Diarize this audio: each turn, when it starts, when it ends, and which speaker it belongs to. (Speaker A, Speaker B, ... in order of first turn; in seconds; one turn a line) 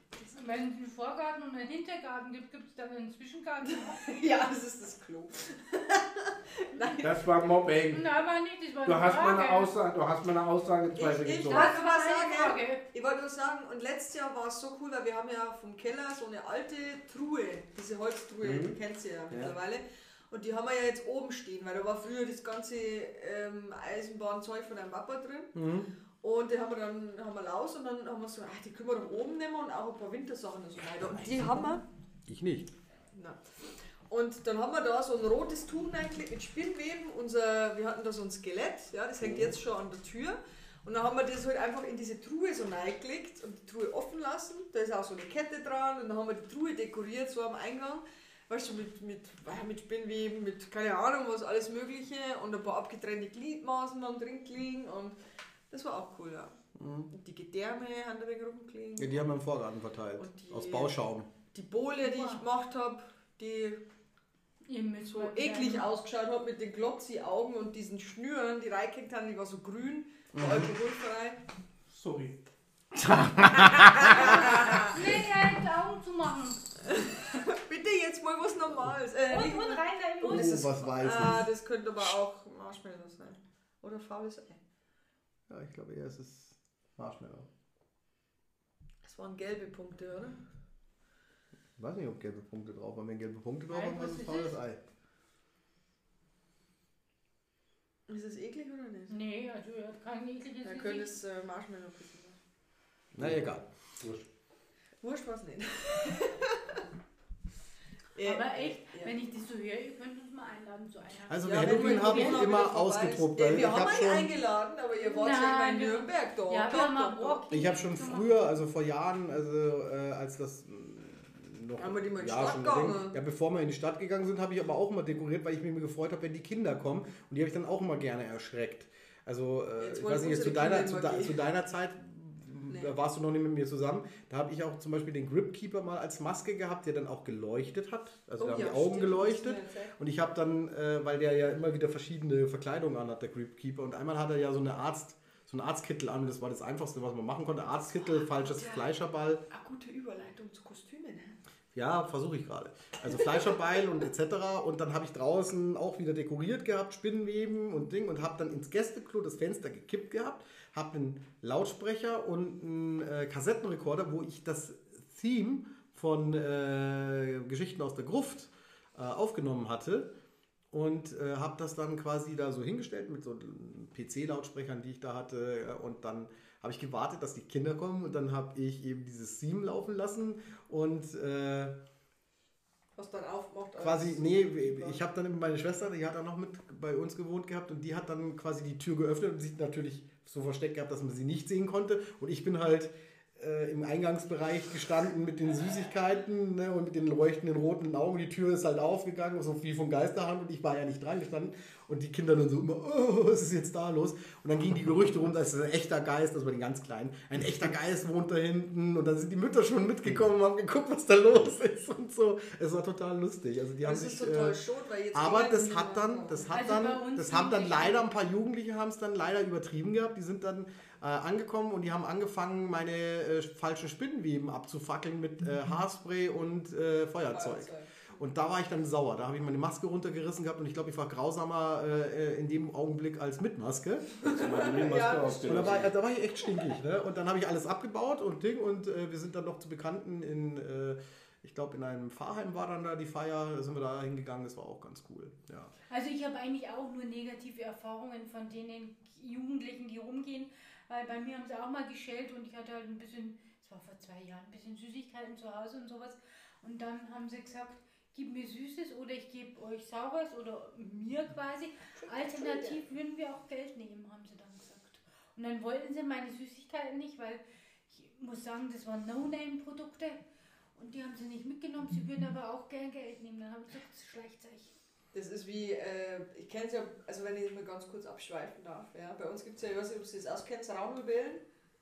Speaker A: 0.3-4.0
Speaker B: 3.6-7.1
Speaker C: 7.0-8.1
Speaker A: 7.9-9.7
Speaker C: 8.8-11.8
Speaker B: 10.9-25.6
Speaker A: 11.5-12.8
Speaker C: 18.4-18.8
Speaker C: 19.3-19.6
Speaker D: 25.6-25.9
Speaker B: 26.2-31.8
Speaker C: 31.0-31.5
Speaker D: 32.3-32.7
Speaker B: 33.1-55.2
Speaker C: 39.2-39.6
Speaker B: 55.7-56.6
Speaker D: 56.8-57.1
Speaker B: 57.1-59.4
Speaker D: 59.0-61.3
Speaker B: 60.2-61.0
Speaker B: 61.5-63.8
Speaker A: 62.0-62.4
Speaker A: 64.7-65.9
Speaker B: 65.1-71.4
Speaker D: 70.3-70.7
Speaker C: 71.9-72.4
Speaker D: 73.1-74.2
Speaker B: 73.5-75.0
Speaker A: 74.4-76.7
Speaker B: 76.9-84.6
Speaker A: 79.3-80.7
Speaker D: 80.3-81.5
Speaker D: 85.5-87.5
Speaker B: 89.0-90.4
Speaker D: 91.8-94.8
Speaker A: 93.7-94.6
Speaker B: 98.1-99.2
Speaker A: 99.1-101.1
Speaker B: 100.6-102.4
Speaker D: 103.1-103.7
Speaker C: 103.1-104.3
Speaker B: 105.0-106.8
Speaker B: 108.2-109.1
Speaker A: 108.2-112.5
Speaker D: 111.3-114.3
Speaker B: 111.4-117.5
Speaker A: 115.0-118.3
Speaker D: 117.5-149.4
Speaker B: 121.8-123.2
Speaker B: 129.8-131.4
Speaker B: 138.4-139.9
Speaker B: 148.0-148.9
Speaker B: 149.5-151.4
Speaker D: 151.7-170.1
Speaker D: 170.7-181.8
Speaker B: 182.9-185.0
Speaker D: 183.8-214.6
Speaker B: 213.8-216.5
Speaker D: 215.1-234.1
Speaker A: 216.5-218.0
Speaker B: 227.3-227.9
Speaker B: 234.2-235.9
Speaker C: 234.2-235.9
Speaker D: 235.4-245.7
Speaker A: 245.9-270.2
Speaker B: 262.0-262.8
Speaker A: 270.8-274.7
Speaker B: 275.1-281.4